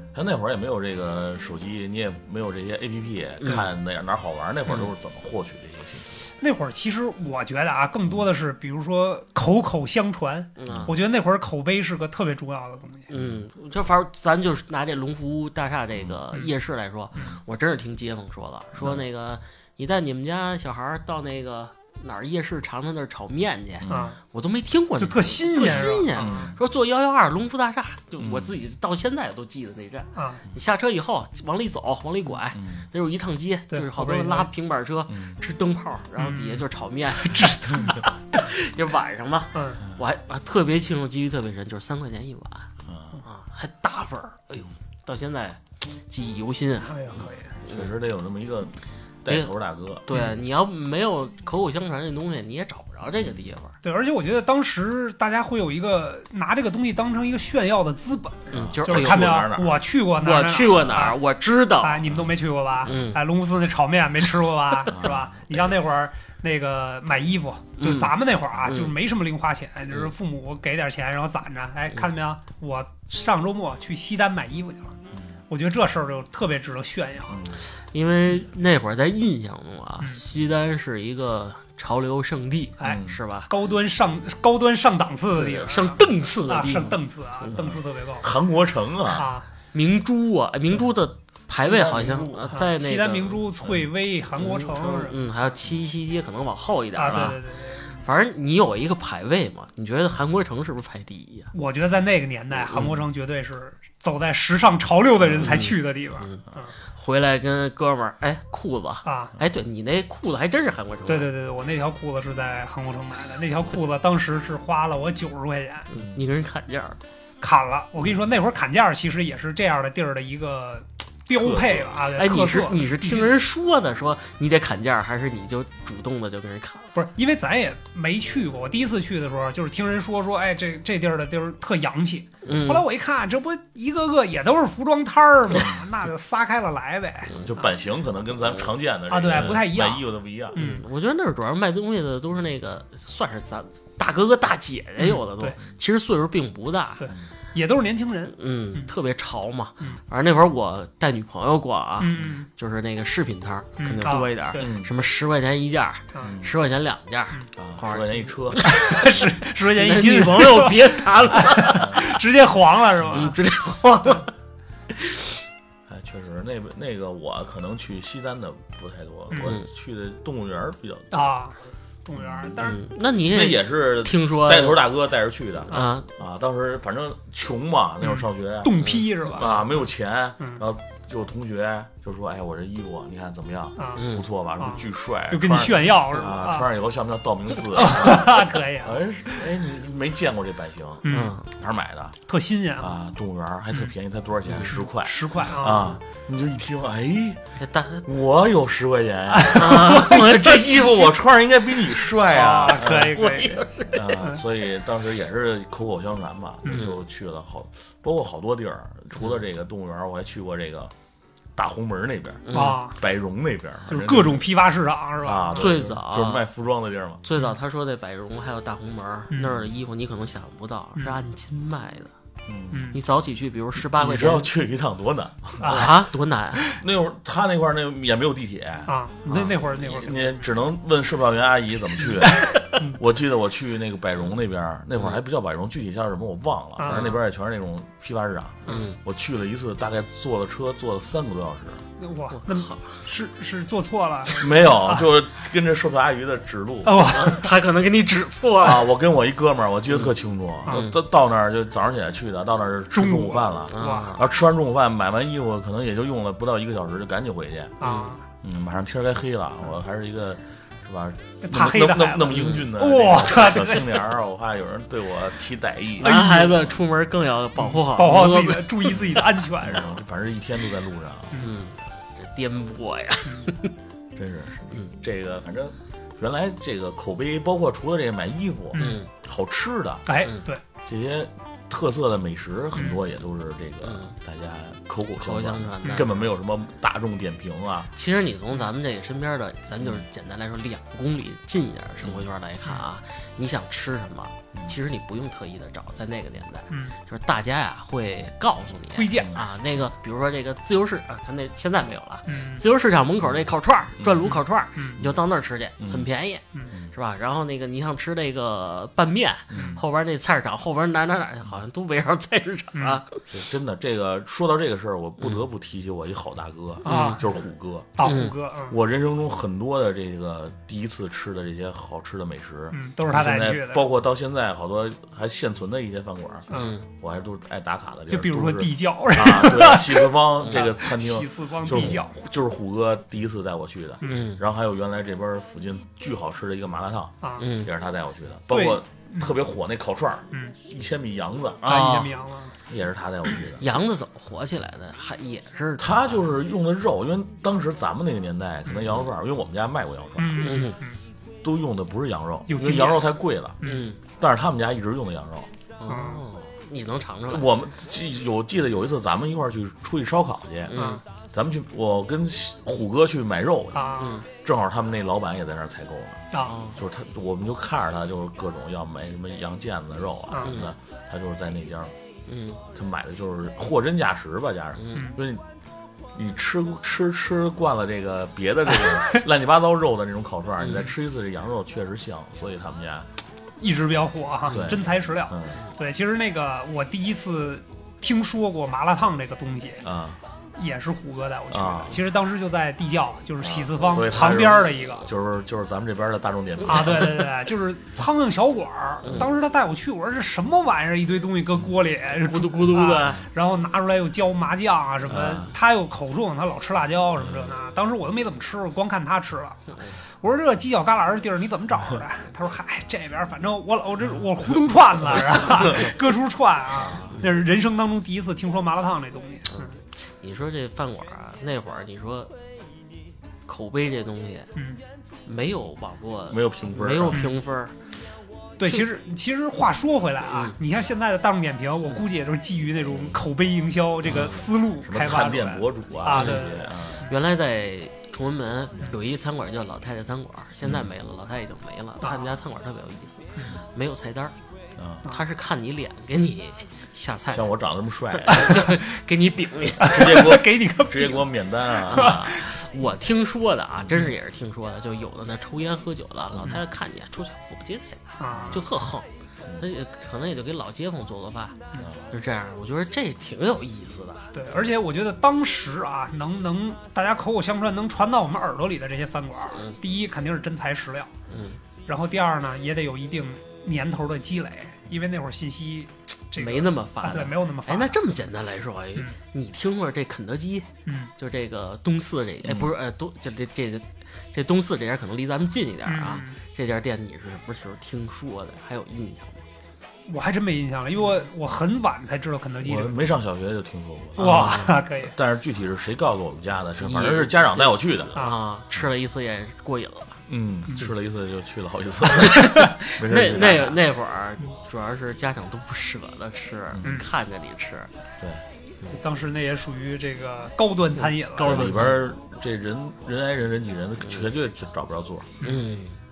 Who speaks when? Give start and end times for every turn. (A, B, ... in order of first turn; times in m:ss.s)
0:00.1-0:06.1 A
0:03.4-0:03.7 B
0:06.4-0:13.1 C
0:10.6-0:10.9 B
0:10.7-0:10.9 A
0:13.1-0:42.7 B
0:18.8-0:19.0 A
0:23.8-0:24.1 A
0:23.9-0:24.2 C
0:25.0-0:26.5 C
0:26.2-0:26.6 A
0:28.2-0:28.6 A
0:30.2-0:30.4 C
0:32.5-0:32.9 A
0:33.7-0:34.5 C
0:35.1-0:35.4 A
0:36.2-0:36.6 C
0:37.2-0:38.1 C
0:39.5-0:39.8 C
0:42.8-0:43.2 A
0:43.2-0:48.0 B
0:46.9-0:47.6 C
0:47.6-0:50.0 A
0:49.3-0:49.5 B
0:50.1-0:53.7 B
0:53.8-1:01.2 C
0:58.5-0:59.5 B
0:58.5-0:59.8 A
1:00.1-1:02.2 B
1:01.8-1:15.0 C
1:02.8-1:03.2 B
1:04.9-1:05.4 A
1:07.8-1:09.0 B
1:15.5-1:17.4 C
1:17.3-1:17.6 A
1:17.9-1:23.5 B
1:22.8-1:28.3 C
1:22.8-1:23.2 A
1:25.3-1:27.6 B
1:27.6-1:29.3 A
1:29.1-1:29.5 C
1:29.7-1:33.4 B
1:31.6-1:32.6 A
1:32.5-1:35.2 C
1:34.4-1:37.4 B
1:37.0-1:38.0 C
1:38.0-1:41.5 B
1:41.5-1:46.7 C
1:42.7-1:43.0 B
1:45.4-1:51.3 B
1:49.0-1:49.3 C
1:51.1-1:55.9 C
1:55.9-1:57.0 B
1:56.0-1:56.2 A
1:57.4-2:03.3 C
2:01.3-2:02.0 A
2:02.1-2:06.9 B
2:07.0-2:17.4 C
2:12.4-2:12.9 B
2:17.4-2:20.6 A
2:19.1-2:20.8 C
2:20.6-2:27.1 B
2:25.0-2:25.6 C
2:27.0-2:28.9 C
2:28.3-2:42.1 B
2:32.0-2:32.5 C
2:33.8-2:34.7 C
2:34.6-2:34.9 A
2:36.2-2:36.5 A
2:37.6-2:38.6 A
2:38.6-2:43.4 C
2:43.1-2:44.3 B
2:44.9-2:45.4 B
2:45.9-2:51.1 A
2:49.4-2:49.6 B
2:51.1-2:52.9 C
2:52.6-2:54.8 B
2:53.3-3:12.2 A
2:55.7-2:56.1 B
2:58.0-2:59.6 C
3:03.8-3:04.0 C
3:04.0-3:04.3 B
3:04.6-3:06.7 C
3:07.7-3:09.4 C
3:11.0-3:11.4 C
3:11.1-3:11.5 B
3:12.3-3:13.0 C
3:12.8-3:17.5 A
3:14.6-3:16.0 C
3:17.6-3:18.0 B
3:18.0-3:23.2 A
3:19.3-3:20.7 C
3:19.5-3:21.1 B
3:22.3-3:24.4 C
3:22.9-3:24.0 B
3:23.9-3:30.9 A
3:26.7-3:27.0 B
3:31.6-3:34.5 A
3:32.5-3:32.8 B
3:32.5-3:33.0 C
3:33.9-3:35.7 C
3:35.2-3:37.2 A
3:35.6-3:36.4 B
3:37.2-3:42.1 B
3:42.5-3:42.9 A
3:42.7-3:43.0 C
3:42.9-3:44.5 B
3:43.9-3:45.9 A
3:45.6-3:46.0 C
3:45.6-3:46.6 B
3:46.8-4:01.8 A
3:48.9-3:50.4 C
3:52.3-3:53.0 C
3:56.8-3:57.1 C
3:56.9-3:57.2 B
3:58.7-3:59.0 B
4:02.0-4:05.0 C
4:02.3-4:03.0 B
4:04.4-4:07.0 A
4:06.8-4:07.5 C
4:07.1-4:08.9 B
4:08.6-4:17.8 A
4:10.7-4:11.0 B
4:12.9-4:14.2 C
4:13.7-4:14.3 B
4:17.8-4:18.2 C
4:17.8-4:18.2 B
4:18.4-4:26.2 A
4:21.4-4:23.9 C
4:22.3-4:22.7 B
4:26.0-4:26.6 C
4:26.0-4:29.2 B
4:27.6-4:30.0 C
4:29.6-4:31.4 A
4:31.4-4:33.7 B
4:34.2-4:40.1 A
4:38.7-4:39.0 C
4:38.8-4:39.1 B
4:40.1-4:40.6 C
4:40.8-4:47.9 A
4:43.8-4:44.1 B
4:45.2-4:46.3 B
4:48.0-5:13.2 B
4:56.7-4:57.0 C
4:58.9-4:59.4 C
5:02.3-5:02.6 C
5:04.0-5:04.3 A
5:05.8-5:06.1 A
5:09.5-5:09.8 A
5:09.5-5:09.8 C
5:12.7-5:13.0 C
5:13.3-5:18.1 A
5:15.2-5:15.4 B
5:16.8-5:17.3 C
5:16.9-5:17.2 B
5:18.0-5:18.8 C
5:18.0-5:18.3 B
5:18.7-5:41.6 A
5:22.7-5:23.9 C
5:26.5-5:26.8 C
5:26.5-5:26.8 B
5:28.1-5:32.2 C
5:34.0-5:34.4 B
5:37.4-5:37.7 B
5:38.5-5:39.4 C
5:41.6-5:42.2 B
5:41.6-5:42.6 C
5:42.7-5:43.6 A
5:43.6-5:46.2 B
5:45.8-5:50.6 A
5:50.2-5:51.0 C
5:50.4-5:50.8 B
5:51.4-5:53.6 A
5:52.5-5:53.1 C
5:53.6-5:53.9 C
5:53.6-5:54.0 B
5:54.1-5:55.5 A
5:55.8-5:57.5 B
5:55.9-5:56.2 C
5:57.3-6:00.8 A
6:00.7-6:01.0 B
6:00.8-6:01.0 C
6:01.3-6:11.9 A
6:03.7-6:04.2 C
6:04.0-6:04.3 B
6:06.3-6:06.6 C
6:06.4-6:06.8 B
6:10.4-6:10.7 B
6:12.3-6:12.6 B
6:12.7-6:15.4 A
6:14.8-6:15.1 B
6:14.9-6:15.2 C
6:16.2-6:23.1 A
6:20.6-6:20.9 B
6:23.6-6:29.8 C
6:24.5-6:25.6 A
6:29.8-6:30.2 A
6:30.6-6:35.1 C
6:31.5-6:32.0 A
6:33.4-6:37.3 A
6:36.6-6:59.8 C
6:42.2-6:43.2 B
6:45.1-6:45.5 A
6:47.2-6:47.5 A
6:59.5-7:02.3 B
7:03.5-7:04.5 B
7:04.6-7:04.8 C
7:05.3-7:07.8 B
7:06.3-7:07.3 A
7:08.6-7:16.7 C
7:10.3-7:10.6 B
7:12.9-7:13.2 A
7:14.1-7:14.4 B
7:14.8-7:17.1 A
7:16.1-7:16.5 B
7:17.0-7:24.4 B
7:20.6-7:20.9 A
7:22.0-7:22.3 C
7:24.8-7:25.1 A
7:25.1-7:27.5 B
7:27.3-7:28.6 A
7:28.2-7:30.2 B
7:29.8-7:31.3 C
7:29.9-7:32.3 A
7:31.9-7:39.1 B
7:31.9-7:32.5 C
7:33.8-7:34.1 A
7:36.3-7:36.6 A
7:38.2-7:38.6 C
7:38.3-7:38.6 A
7:39.6-7:44.3 B
7:41.8-7:42.1 A
7:44.3-7:51.1 C
7:51.3-7:51.6 B
7:51.9-7:58.0 C
7:56.4-8:09.4 B
8:00.9-8:01.1 C
8:02.4-8:02.7 A
8:05.8-8:06.4 C
8:10.1-8:13.1 C
8:12.6-8:14.6 A
8:14.2-8:15.1 C
8:14.2-8:14.8 B
8:15.1-8:18.2 A
8:16.8-8:20.2 B
8:20.3-8:23.8 A
8:22.2-8:27.9 B
8:26.7-8:27.0 A
8:26.8-8:27.1 C
8:28.2-8:28.4 A
8:28.9-8:31.7 C
8:31.0-8:32.0 B
8:31.4-8:35.5 A
8:35.4-8:36.0 B